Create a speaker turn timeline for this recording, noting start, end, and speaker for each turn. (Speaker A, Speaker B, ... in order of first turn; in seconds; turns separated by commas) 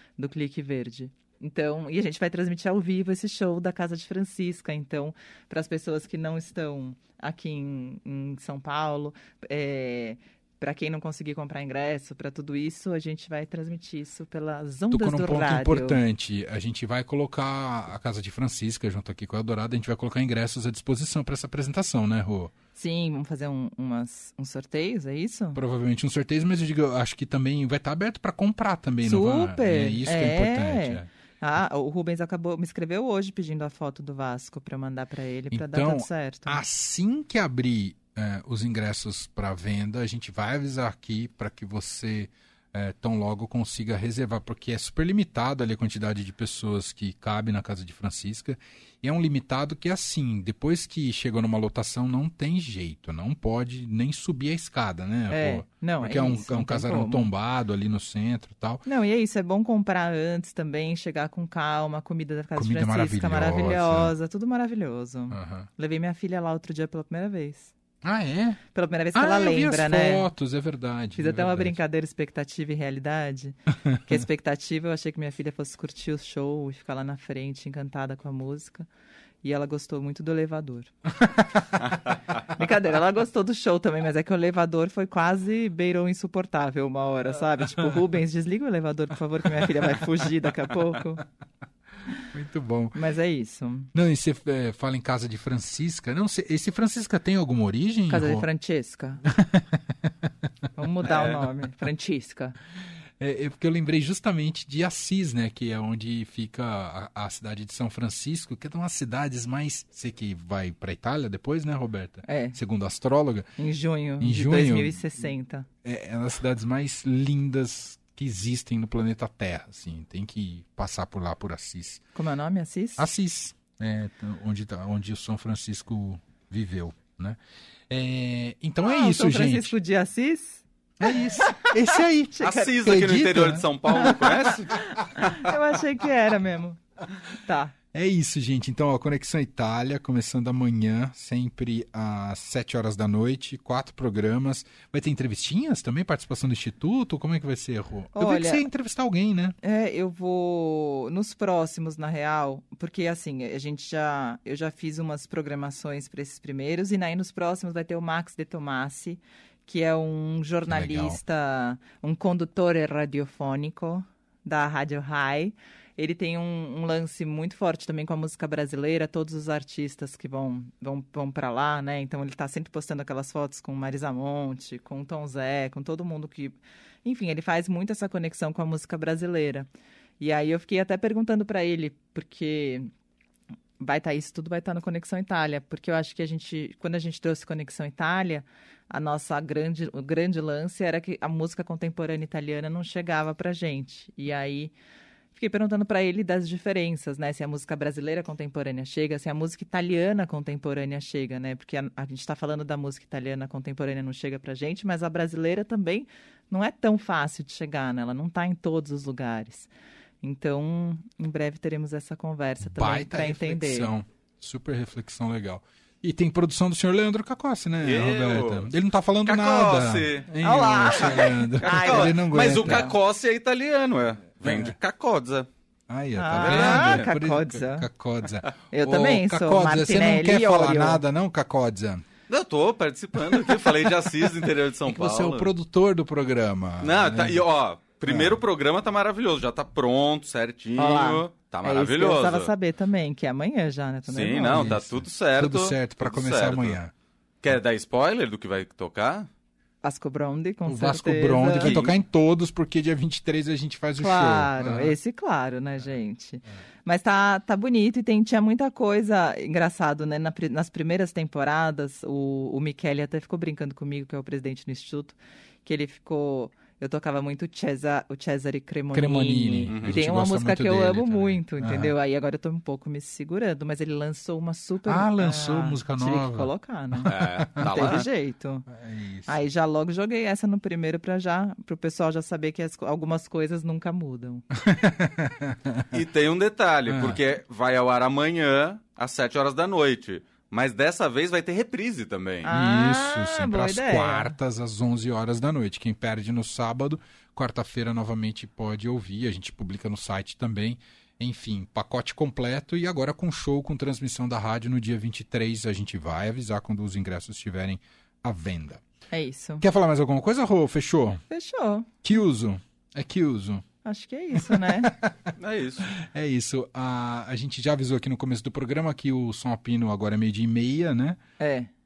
Speaker A: 0.2-16.0, Speaker B: 14.9-22.5, Speaker A: 22.8-25.6, Speaker B: 25.5-31.1, Speaker A: 29.0-36.6, Speaker B: 35.5-58.8, Speaker A: 55.3-57.3, Speaker A: 58.9-67.7, Speaker B: 62.6-64.1, Speaker B: 65.3-65.7, Speaker B: 68.0-68.6, Speaker A: 68.7-70.3, Speaker B: 69.1-71.8, Speaker A: 71.2-78.9, Speaker A: 79.4-80.9, Speaker A: 82.4-91.2, Speaker B: 92.3-93.0, Speaker A: 93.0-93.9, Speaker B: 93.9-98.5, Speaker A: 98.1-99.2, Speaker B: 99.4-99.7, Speaker A: 100.8-102.6, Speaker C: 101.0-101.4, Speaker B: 103.2-113.5, Speaker A: 112.3-112.6, Speaker A: 113.6-115.7, Speaker B: 114.2-115.0, Speaker B: 115.8-122.0, Speaker A: 122.2-123.1, Speaker B: 123.0-129.7, Speaker A: 128.8-132.8, Speaker B: 131.0-134.3, Speaker C: 132.4-134.9, Speaker A: 133.9-136.8, Speaker A: 137.4-137.8, Speaker B: 137.9-149.6, Speaker A: 148.2-148.7, Speaker A: 149.6-179.7, Speaker B: 160.7-161.2, Speaker A: 180.2-182.9, Speaker A: 183.8-194.7, Speaker A: 195.3-209.7, Speaker A: 210.2-213.9, Speaker B: 212.7-222.9, Speaker C: 217.8-218.7, Speaker C: 219.2-220.3, Speaker A: 220.4-222.9, Speaker C: 221.6-225.5, Speaker B: 224.4-224.7, Speaker B: 225.9-232.1, Speaker A: 226.2-227.9, Speaker C: 226.4-227.1, Speaker A: 228.7-231.0, Speaker C: 232.3-235.5, Speaker B: 234.9-237.4, Speaker C: 236.8-242.5, Speaker B: 238.1-238.4, Speaker A: 240.8-244.8, Speaker C: 244.1-246.8, Speaker B: 244.4-246.9, Speaker C: 247.4-249.3, Speaker A: 249.8-251.8, Speaker B: 250.7-255.0, Speaker C: 251.5-251.9, Speaker A: 254.0-278.7, Speaker B: 268.9-271.9, Speaker C: 269.7-270.0, Speaker B: 274.9-277.9, Speaker C: 277.1-278.1, Speaker B: 278.7-279.4, Speaker A: 279.3-284.5, Speaker B: 284.6-285.9, Speaker C: 285.9-292.5, Speaker B: 286.9-287.2, Speaker A: 292.4-294.3, Speaker B: 292.5-308.8, Speaker A: 309.1-309.6, Speaker B: 309.6-311.2, Speaker A: 311.3-312.0, Speaker B: 312.0-313.6, Speaker A: 313.8-314.9, Speaker B: 314.4-315.3, Speaker C: 315.4-315.9, Speaker B: 316.0-321.2, Speaker A: 321.4-321.7